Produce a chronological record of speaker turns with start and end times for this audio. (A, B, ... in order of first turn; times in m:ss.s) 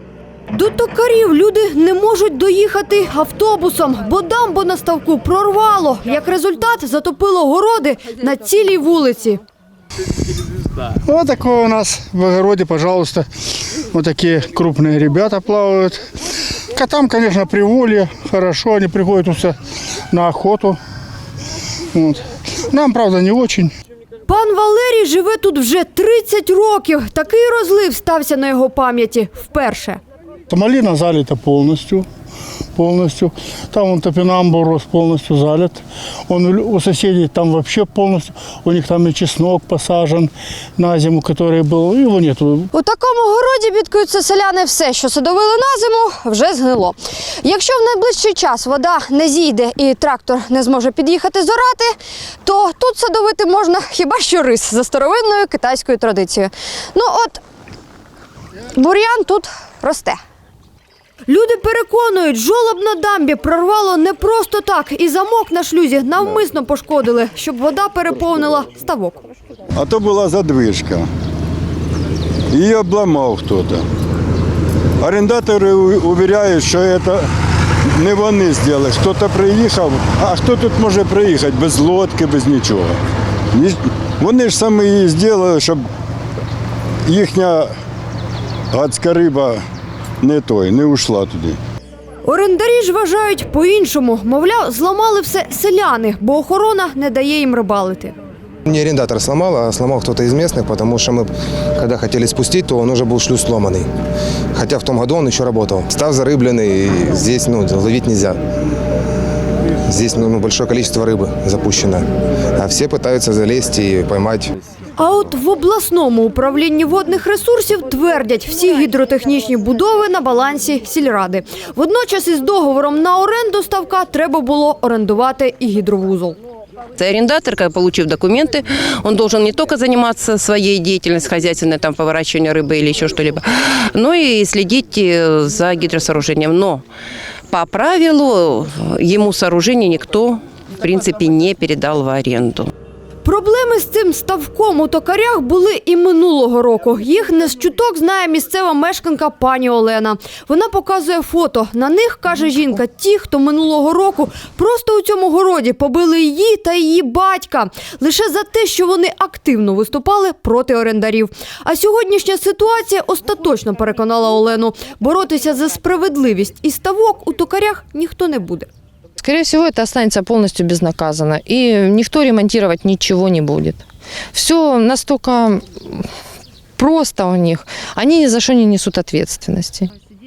0:00.5-0:09.4 A
0:11.0-0:13.3 B
0:13.9-0:16.0 B
0:16.7-0:19.6 B
0:20.1-0:20.8 B
0:21.9-0:23.7 B
0:24.2-0:30.0 A
0:30.5-0:32.0 B
0:32.7-0:42.7 B
0:42.7-0:57.4 A
0:58.7-1:00.2 A
1:01.3-1:09.2 A
1:09.8-1:11.1 C
1:12.5-1:13.8 C
1:15.0-1:17.2 C
1:18.0-1:23.0 C
1:23.5-1:25.8 C
1:27.0-1:27.7 C
1:28.7-1:29.6 C
1:30.2-1:31.6 C
1:32.2-1:38.2 A
1:38.7-1:43.9 D
1:44.5-1:48.4 D
1:49.9-1:54.5 D
1:55.0-2:06.4 A
2:07.0-2:16.8 E
2:17.5-2:22.7 E
2:23.2-2:48.7 A
2:49.2-2:56.1 F
2:56.8-2:59.9 F